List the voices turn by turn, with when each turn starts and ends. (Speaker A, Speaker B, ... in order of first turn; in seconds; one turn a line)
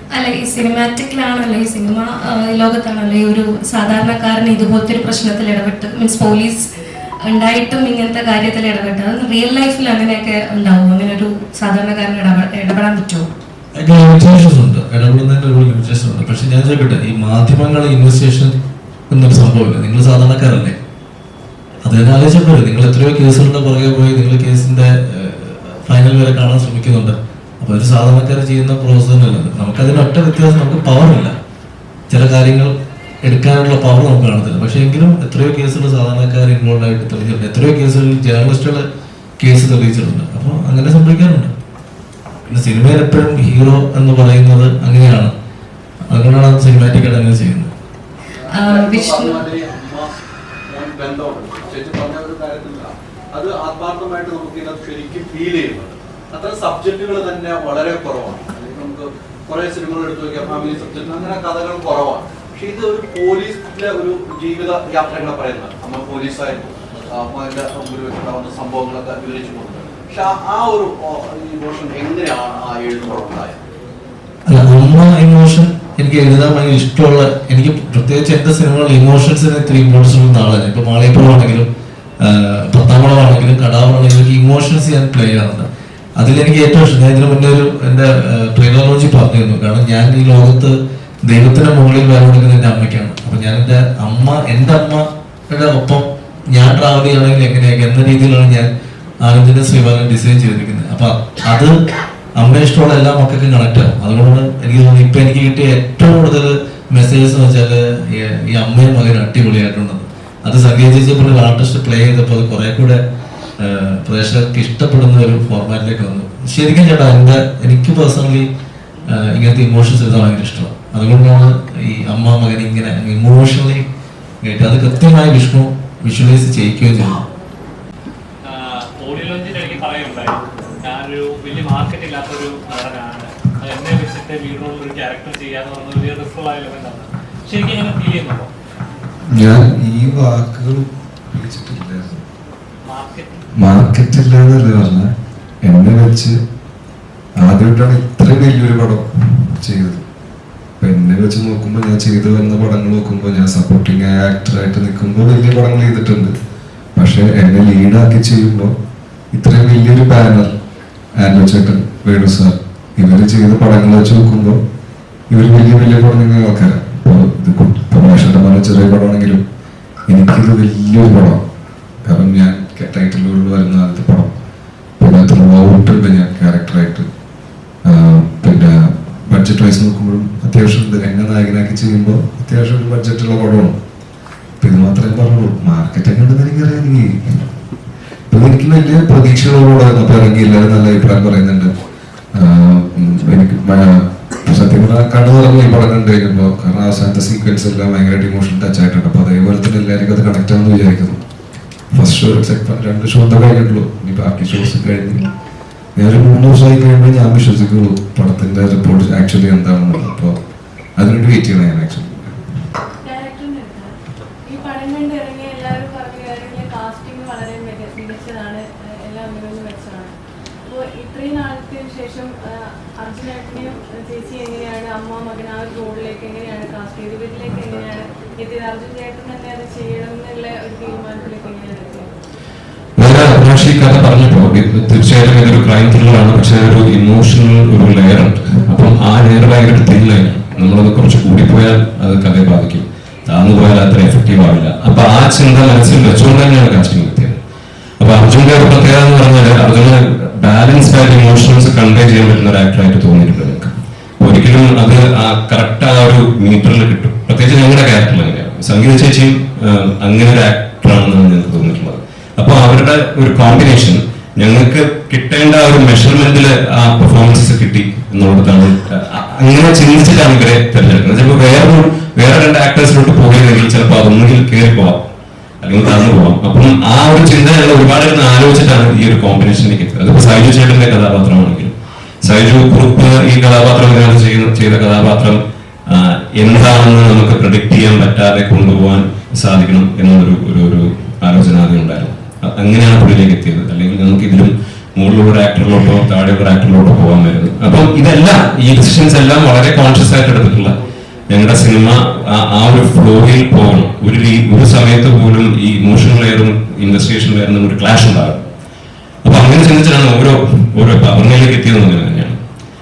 Speaker A: 0.1-6.7
Speaker A: 7.3-13.3
Speaker B: 13.7-18.5
Speaker B: 19.1-20.8
Speaker B: 21.8-31.4
Speaker B: 32.1-38.8
Speaker B: 39.4-41.5
Speaker B: 42.5-45.3
Speaker B: 46.1-47.7
Speaker C: 48.4-50.1
Speaker A: 48.5-49.4
Speaker C: 50.7-73.6
Speaker B: 74.5-81.7
Speaker B: 82.2-98.7
Speaker B: 99.2-101.7
Speaker B: 102.4-113.0
Speaker B: 113.6-118.5
Speaker B: 119.1-123.8
Speaker B: 124.4-127.2
Speaker D: 128.5-138.5
Speaker E: 139.3-142.2
Speaker D: 142.8-143.4
Speaker E: 143.6-145.1
Speaker E: 145.6-146.3
Speaker E: 147.4-149.1
Speaker E: 149.6-150.0
Speaker E: 150.8-156.3
Speaker E: 156.9-158.7
Speaker E: 159.3-160.5
Speaker E: 161.2-164.6
Speaker E: 165.3-169.4
Speaker E: 170.1-171.4
Speaker E: 172.0-174.3
Speaker E: 175.0-177.1
Speaker E: 177.8-183.7
Speaker E: 184.6-187.4
Speaker E: 188.3-191.7
Speaker E: 192.3-201.2
Speaker E: 201.9-205.3
Speaker E: 205.9-210.3
Speaker E: 211.0-212.4
Speaker F: 213.0-213.9
Speaker F: 214.5-220.1
Speaker F: 220.7-222.3
Speaker F: 223.0-232.1
Speaker G: 233.0-247.4
Speaker G: 248.0-275.1
Speaker G: 275.6-300.7
Speaker G: 301.3-308.5
Speaker G: 309.2-312.4